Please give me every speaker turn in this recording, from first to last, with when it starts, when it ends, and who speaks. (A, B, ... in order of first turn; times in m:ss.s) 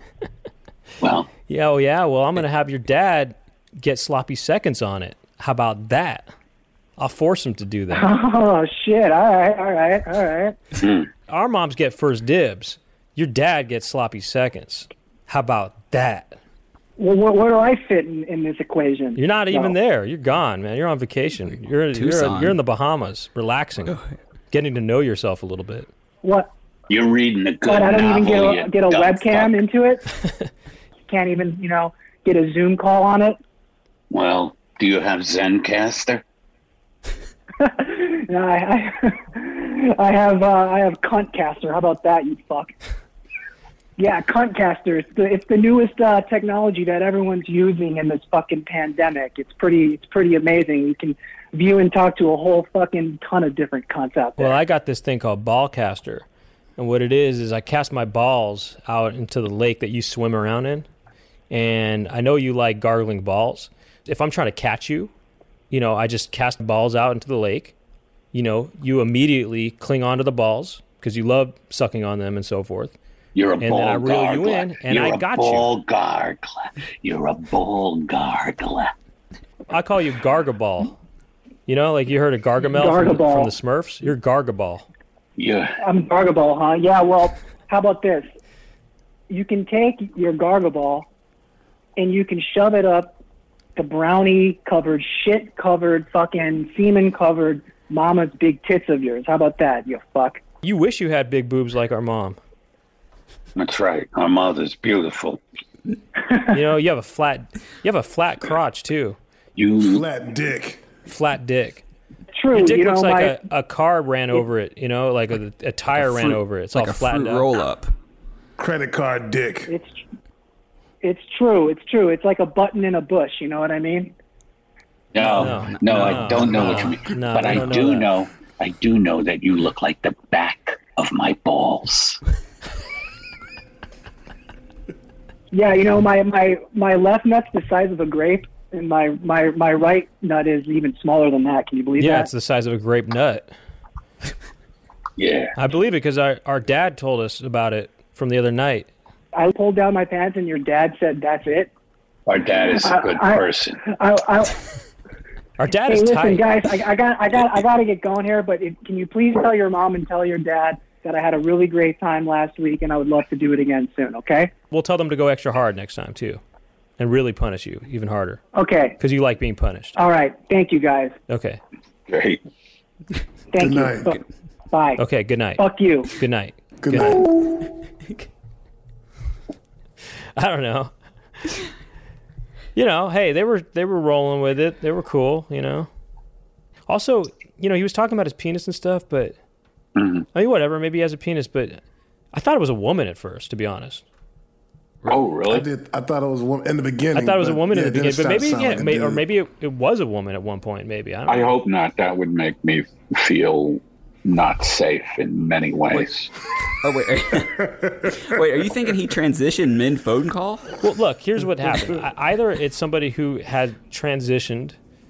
0:01.0-0:01.3 A
0:01.5-0:06.3 B
0:07.0-0:08.1 B
0:07.9-0:10.6 C
0:10.8-0:11.1 A
0:11.3-0:16.4 B
0:17.0-0:19.8 C
0:19.2-0:24.0 B
0:21.9-0:22.6 D
0:23.9-0:24.1 D
0:24.5-0:25.9 B
0:26.2-0:26.5 C
0:26.9-0:29.6 A
0:27.6-0:30.1 C
0:31.1-0:33.4 C
0:34.1-0:36.2 A
0:37.6-0:42.7 C
0:44.0-0:54.6 C
0:54.4-0:56.3 B
0:56.8-1:00.9 B
1:01.5-1:05.1 B
1:05.7-1:07.7 B
1:08.3-1:13.0 B
1:13.4-1:18.9 A
1:13.6-1:15.7 B
1:19.7-1:21.0 B
1:21.7-1:24.9 B
1:22.7-1:23.5 C
1:25.4-1:25.8 A
1:25.8-1:28.3 C
1:29.3-1:31.1 C
1:32.0-1:33.2 C
1:33.8-1:40.4 C
1:40.6-1:42.4 B
1:43.6-1:45.4 A
1:46.5-1:49.2 B
1:49.6-1:50.0 A
1:49.8-1:50.8 E
1:51.1-1:51.8 B
1:52.4-1:53.4 C
1:52.5-1:57.5 B
1:56.0-1:57.9 D
1:58.6-1:59.7 E
1:59.7-2:00.0 C
2:01.0-2:04.2 C
2:05.1-2:12.2 A
2:05.2-2:08.1 B
2:05.3-2:07.6 D
2:15.5-2:22.3 C
2:22.0-2:23.5 B
2:25.2-2:25.6 A
2:25.6-2:28.9 B
2:29.4-2:31.7 C
2:32.3-2:33.8 A
2:32.8-2:34.6 C
2:35.6-2:36.5 B
2:35.9-2:44.5 C
2:44.7-2:46.4 B
2:47.0-2:48.4 B
2:48.6-2:49.0 C
2:49.0-2:50.0 B
2:50.0-2:51.2 C
2:51.3-2:51.6 B
2:52.1-2:52.4 A
2:53.5-2:54.2 C
2:53.6-2:54.2 E
2:54.7-2:55.0 C
2:55.0-2:57.2 B
2:55.6-2:56.1 C
2:56.8-2:57.2 E
3:00.4-3:00.9 B
3:02.8-3:05.9 B
3:06.9-3:09.4 B
3:10.0-3:10.3 A
3:10.3-3:11.8 B
3:12.3-3:14.0 B
3:15.1-3:15.7 A
3:15.5-3:19.2 E
3:17.1-3:21.5 B
3:21.3-3:26.3 A
3:26.8-3:30.8 D
3:30.8-3:34.8 B